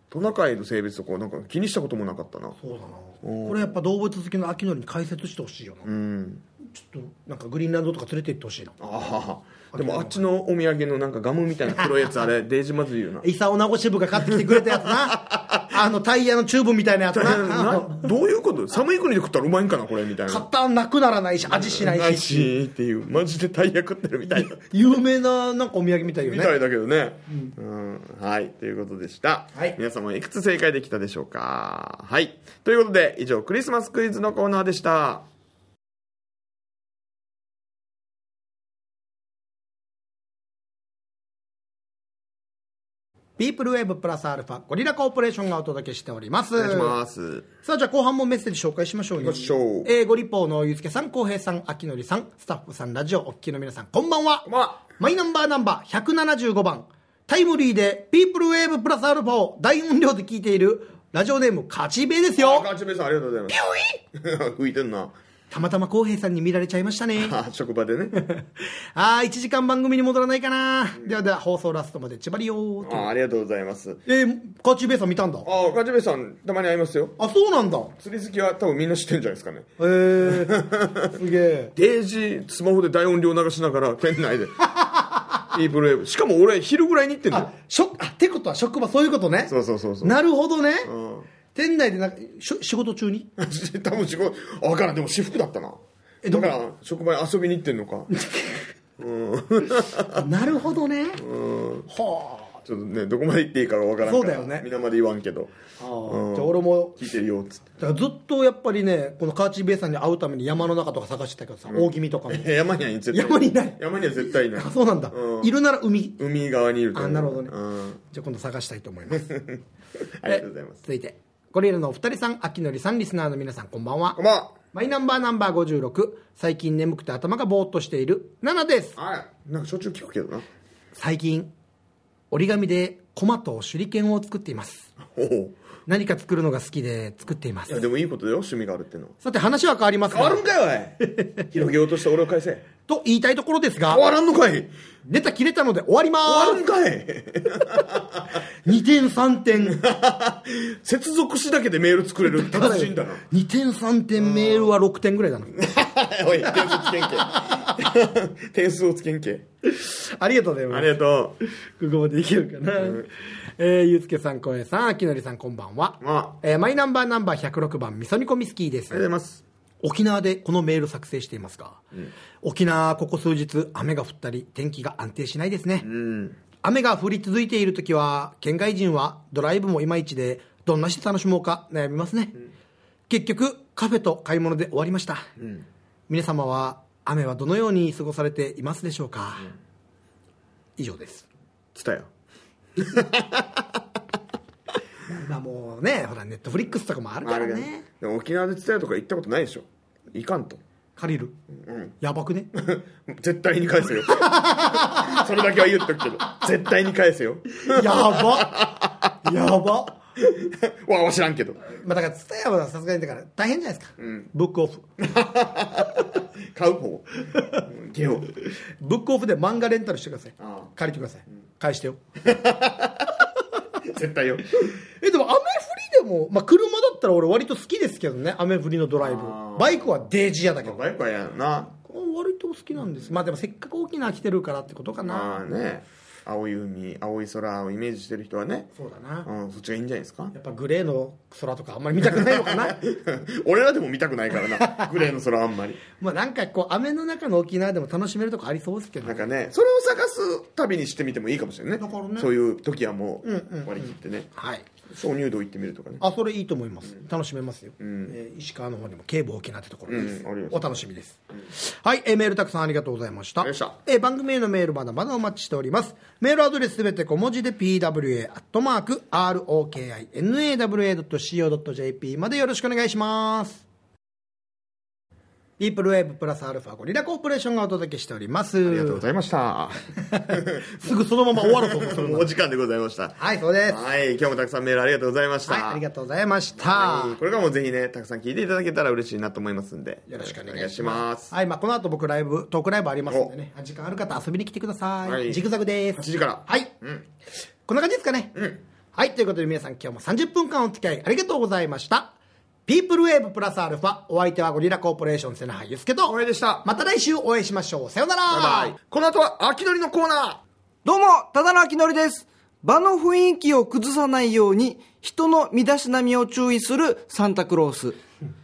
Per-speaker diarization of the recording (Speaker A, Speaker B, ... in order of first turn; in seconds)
Speaker A: 0.1-2.6, 3.2-3.7, 5.8-6.4, 8.8-13.2, 14.2-15.7, 17.1-20.4, 21.4-24.6, 26.2-35.2, 46.5-47.5, 49.2-49.9, 54.5-54.8, 62.4-65.1, 67.2-68.2, 72.8-74.0, 75.4-77.2, 78.0-81.1, 81.8-84.7, 85.5-87.5, 89.5-90.2, 90.8-91.3, 93.4-98.1, 99.0-100.2, 101.2-101.9, 102.6-105.5, 106.1-107.8, 111.7-115.5, 116.2-118.0, 119.3-119.6, 120.2-120.8, 124.2-124.5, 129.0-130.4, 135.0-135.6, 137.7-139.1, 140.1-142.7, 143.9-144.7, 146.2-148.4, 149.6-153.2, 154.2-154.7, 155.6-159.4, 160.7-161.4, 162.8-163.0, 166.0-166.4, 168.9-169.4, 175.8-176.4, 185.4-185.6, 191.7-192.1, 192.8-193.8, 197.2-200.6, 201.6-201.9, 202.5-209.2, 210.2-211.6, 214.0-214.3, 215.0-218.3, 220.4-220.7, 222.2-223.1, 223.8-224.8, 229.0-229.9, 230.6-231.7, 235.0-238.7, 239.2-240.3, 242.0-245.8, 249.0-254.3, 254.9-256.0, 257.8-258.1, 259.9-260.7, 263.4-263.8, 278.6-285.8, 286.6-291.3, 295.0-297.0, 306.1-306.6, 308.3-310.4
Speaker B: 2.6-5.9, 6.7-8.8, 9.7-10.2, 13.2-18.1, 20.2-22.5, 24.3-26.5, 27.3-27.5, 43.4-47.0, 47.6-62.7, 65.5-67.3, 68.2-73.1, 74.0-75.5, 77.2-77.9, 79.8-81.7, 84.8-85.2, 87.3-90.9, 91.5-93.3, 96.2-96.6, 98.1-98.7, 100.1-101.2, 101.9-102.6, 104.0-104.6, 105.8-107.0, 107.8-112.5, 113.1-116.2, 116.9-117.5, 118.1-119.4, 120.3-124.2, 124.7-129.0, 130.9-131.5, 132.3-134.9, 135.9-137.8, 139.2-140.4, 141.0-141.4, 142.9-144.1, 145.0-146.6, 148.6-149.8, 152.2-155.7, 156.5-157.8, 159.7-160.9, 161.8-169.0, 169.8-171.8, 172.4-175.9, 176.6-182.4, 183.1-185.2, 186.1-189.5, 190.8-191.2, 195.1-197.8, 201.0-201.3, 202.0-202.5, 204.1-205.2, 207.6-210.0, 211.6-214.9, 217.4-217.6, 218.8-222.0, 224.8-230.8, 231.8-235.4, 238.7-239.3, 240.3-242.8, 244.6-244.9, 246.0-249.3, 251.8-252.3, 253.2-254.6, 256.0-273.6, 275.6-279.0, 280.1-282.3, 283.2-283.8, 285.4-287.2, 290.1-296.7, 297.6-298.3, 298.9-302.1, 302.6-308.7
Speaker C: 310.8-318.0